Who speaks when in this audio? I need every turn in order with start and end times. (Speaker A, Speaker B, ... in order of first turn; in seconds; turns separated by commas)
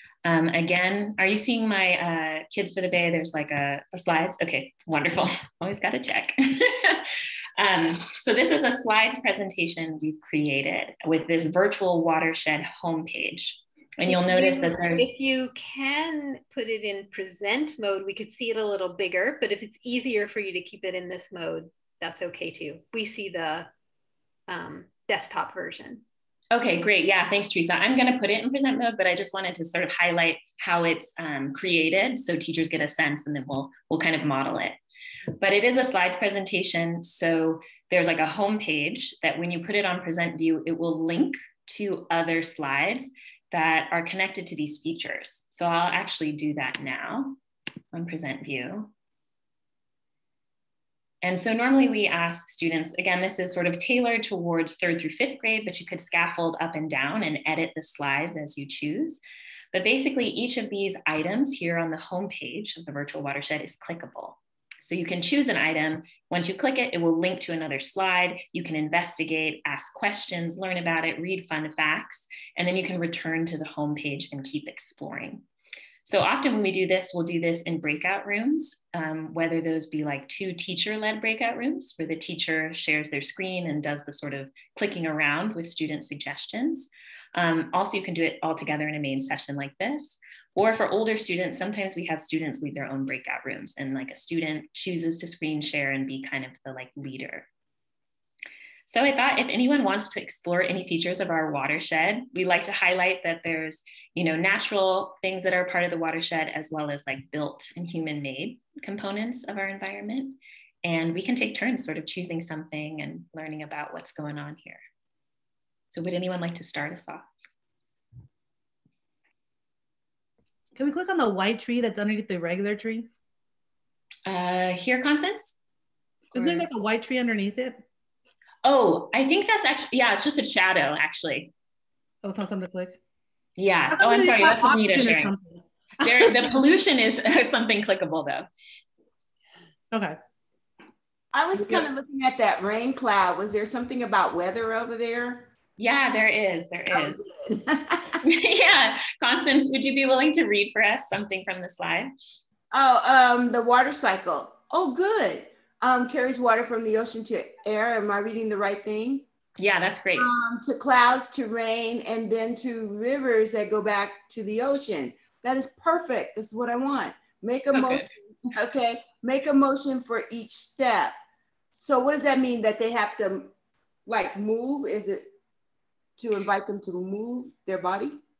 Speaker A: 0.2-15.1, Speaker B: 14.1-23.7, Speaker B: 24.5-26.0, Speaker A: 26.5-34.8, Speaker A: 35.4-47.4, Speaker A: 47.9-48.9, Speaker A: 51.2-59.2, Speaker A: 59.7-75.5, Speaker A: 76.0-97.5, Speaker A: 98.9-114.8, Speaker A: 115.9-117.3, Speaker C: 120.8-123.1, Speaker A: 124.3-125.6, Speaker C: 126.3-127.8, Speaker A: 126.3-126.7, Speaker A: 128.6-131.5, Speaker C: 132.2-133.0, Speaker A: 133.6-135.3, Speaker C: 133.9-136.6, Speaker A: 136.0-138.5, Speaker C: 139.9-140.2, Speaker D: 141.3-145.5, Speaker A: 145.8-147.2, Speaker D: 146.9-148.2, Speaker A: 148.2-152.1, Speaker D: 152.7-159.3, Speaker A: 159.6-160.3, Speaker D: 160.2-171.2, Speaker A: 167.7-168.1, Speaker D: 171.7-173.5, Speaker D: 174.1-175.3, Speaker D: 176.2-178.2